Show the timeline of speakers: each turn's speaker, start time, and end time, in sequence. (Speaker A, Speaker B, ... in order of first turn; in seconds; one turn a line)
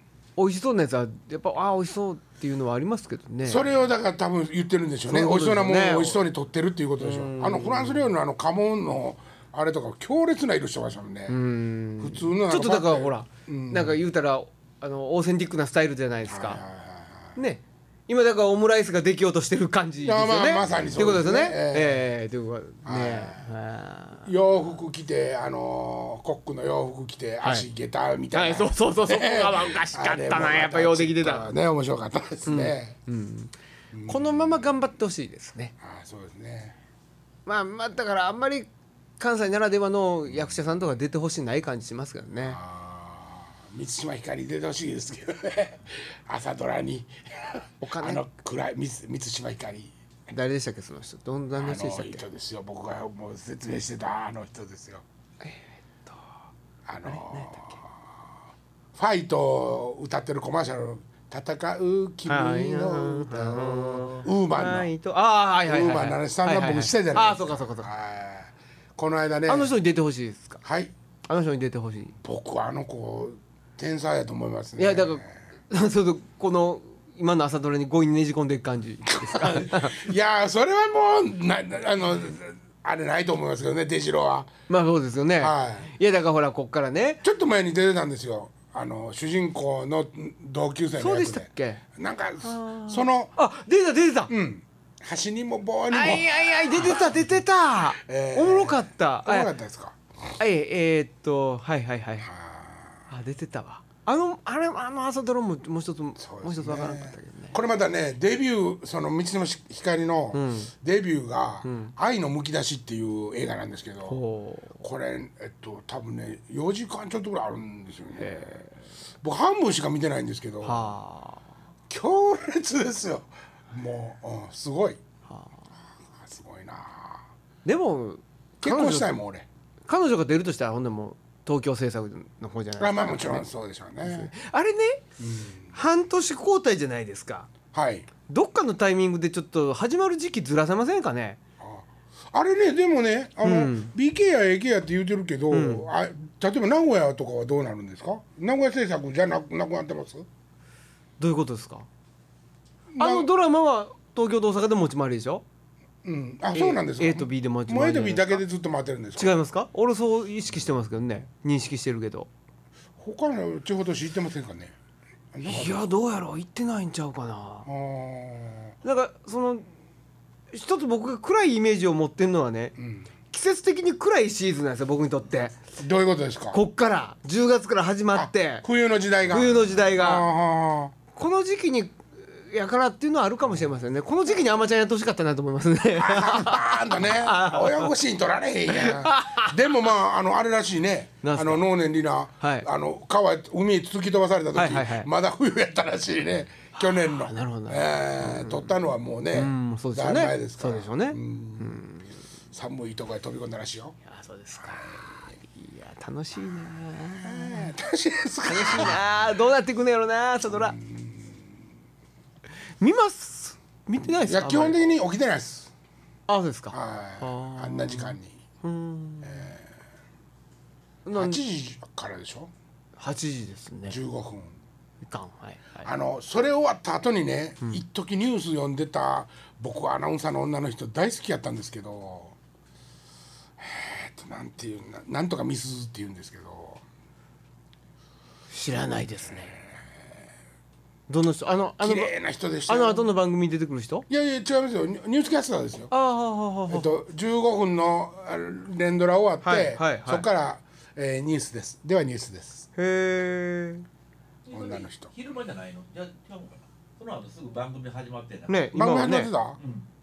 Speaker A: 0.4-3.6
Speaker B: 3.5-11.4
Speaker A: 5.1-6.2
Speaker A: 7.0-8.1
Speaker A: 11.3-16.6
Speaker B: 12.0-14.0
Speaker B: 16.3-17.3
Speaker A: 17.4-24.3
Speaker B: 20.1-22.0
Speaker B: 22.9-23.4
Speaker B: 24.2-33.0
Speaker A: 28.3-31.5
Speaker A: 32.5-33.5
Speaker B: 33.9-34.3
Speaker A: 34.1-35.7
Speaker B: 35.8-36.8
Speaker A: 37.5-42.6
Speaker B: 42.5-49.9
Speaker A: 47.8-48.2
Speaker A: 50.3-52.2
Speaker B: 51.6-55.0
Speaker A: 55.4-56.2
Speaker B: 56.9-57.8
Speaker A: 57.0-57.8
Speaker B: 59.0-64.9
Speaker A: 62.3-67.9
Speaker B: 65.7-69.8
Speaker A: 69.5-70.6
Speaker B: 70.6-70.9
Speaker A: 71.3-72.1
Speaker B: 72.2-75.3
Speaker A: 74.8-80.0
Speaker B: 79.2-84.5
Speaker A: 84.7-87.2
Speaker B: 85.4-85.9
Speaker B: 87.2-93.3
Speaker A: 91.0-91.8
Speaker A: 92.4-94.3
Speaker B: 94.3-97.1
Speaker A: 95.9-99.5
Speaker B: 98.0-100.0
Speaker A: 100.4-102.3
Speaker B: 102.2-103.0
Speaker A: 103.1-107.6
Speaker B: 106.2-114.2
Speaker A: 110.3-110.7
Speaker A: 111.6-111.9
Speaker A: 114.1-114.8
Speaker B: 114.8-118.6
Speaker A: 118.2-118.7
Speaker B: 119.2-120.9
Speaker A: 120.6-121.4
Speaker B: 121.9-125.0
Speaker B: 126.2-127.2
Speaker A: 127.7-129.2
Speaker B: 128.6-129.5
Speaker A: 129.9-133.5
Speaker B: 132.8-134.3
Speaker A: 134.0-135.0
Speaker B: 135.2-135.7
Speaker A: 135.7-137.5
Speaker B: 137.7-138.1
Speaker A: 138.3-141.4
Speaker B: 141.6-150.3
Speaker A: 143.4-143.9
Speaker A: 145.5-145.9
Speaker A: 151.2-151.9
Speaker B: 152.9-153.3
Speaker A: 153.0-155.4
Speaker B: 156.0-159.4
Speaker A: 156.5-158.4
Speaker A: 159.2-162.3
Speaker B: 163.0-164.7
Speaker B: 165.3-165.8
Speaker A: 165.4-167.7
Speaker B: 167.7-168.7
Speaker A: 168.8-169.7
Speaker A: 170.5-172.8
Speaker B: 172.8-173.1
Speaker A: 173.3-175.6
Speaker B: 175.8-176.6
Speaker A: 176.5-178.7
Speaker B: 178.1-180.9
Speaker A: 179.3-180.3
Speaker A: 181.2-187.9
Speaker B: 186.0-201.8
Speaker A: 188.7-189.5
Speaker A: 191.2-191.7
Speaker A: 192.4-192.7
Speaker A: 194.6-195.1
Speaker A: 196.8-198.7
Speaker A: 199.3-202.1
Speaker B: 202.5-204.0
Speaker A: 204.1-207.7
Speaker B: 207.2-209.0
Speaker A: 208.5-210.8
Speaker B: 210.6-211.4
Speaker A: 212.8-214.8
Speaker B: 214.2-215.7
Speaker A: 216.3-219.5
Speaker B: 216.7-218.4
Speaker B: 219.2-219.7
Speaker A: 221.1-221.4
Speaker B: 221.1-222.5
Speaker A: 223.0-224.0
Speaker B: 223.9-224.5
Speaker A: 225.0-225.9
Speaker B: 225.8-232.3
Speaker B: 233.6-236.8
Speaker A: 238.5-239.5
Speaker A: 241.1-242.1
Speaker B: 241.8-243.1
Speaker A: 242.7-244.1
Speaker B: 244.1-245.9
Speaker A: 245.9-246.9
Speaker B: 246.7-252.7
Speaker A: 249.4-250.3
Speaker A: 252.8-253.8
Speaker C: 254.4-258.6
Speaker B: 254.5-255.1
Speaker A: 258.5-259.3
Speaker B: 258.7-259.6